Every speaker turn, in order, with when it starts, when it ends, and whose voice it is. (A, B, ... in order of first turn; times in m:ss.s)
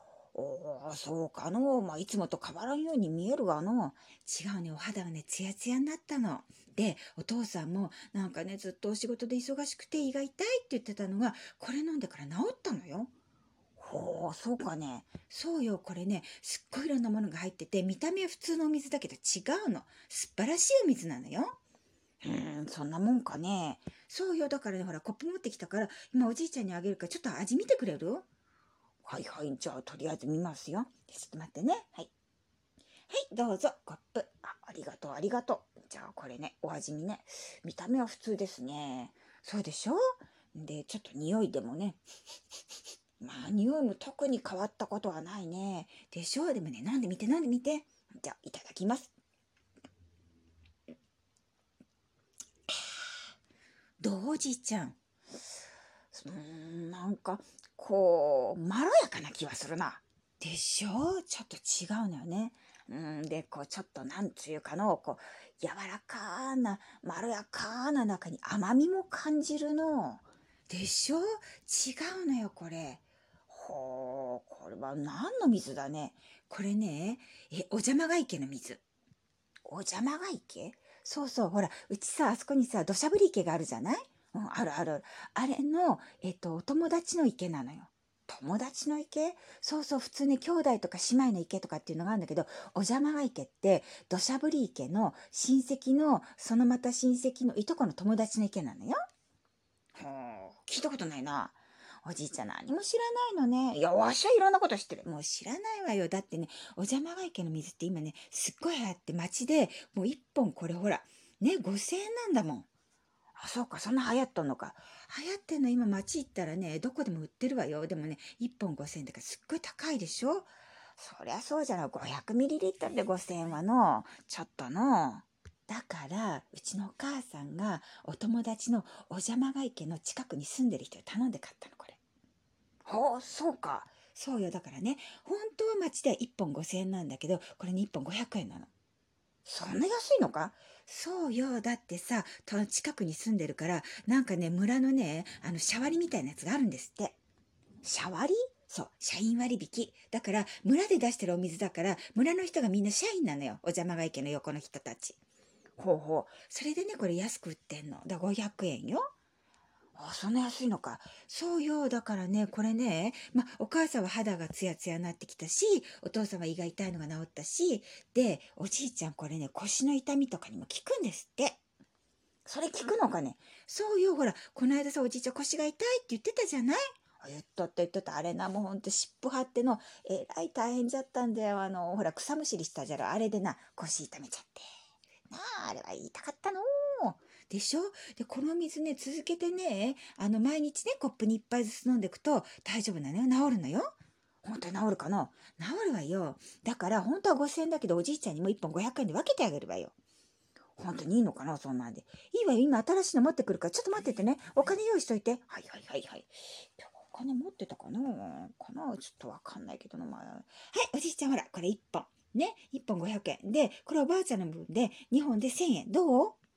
0:00.3-0:13.1 A
0:13.8-0:21.5 A
0:22.2-0:28.2 A
0:29.0-0:32.1 A
0:33.1-0:40.0 A
0:40.5-0:42.0 A
0:43.2-0:49.1 A
0:52.7-0:52.9 A
0:54.0-0:55.0 A
0:56.1-1:18.8 A
1:19.7-1:39.0 A
1:40.0-1:52.7 A
1:53.4-2:12.0 A
2:12.8-2:18.7 A
2:19.4-2:27.2 A
2:27.8-2:35.2 A
2:35.8-2:39.0 A
2:40.0-2:51.6 A
2:52.5-3:04.6 A
3:05.3-3:20.0 A
3:20.8-3:36.4 A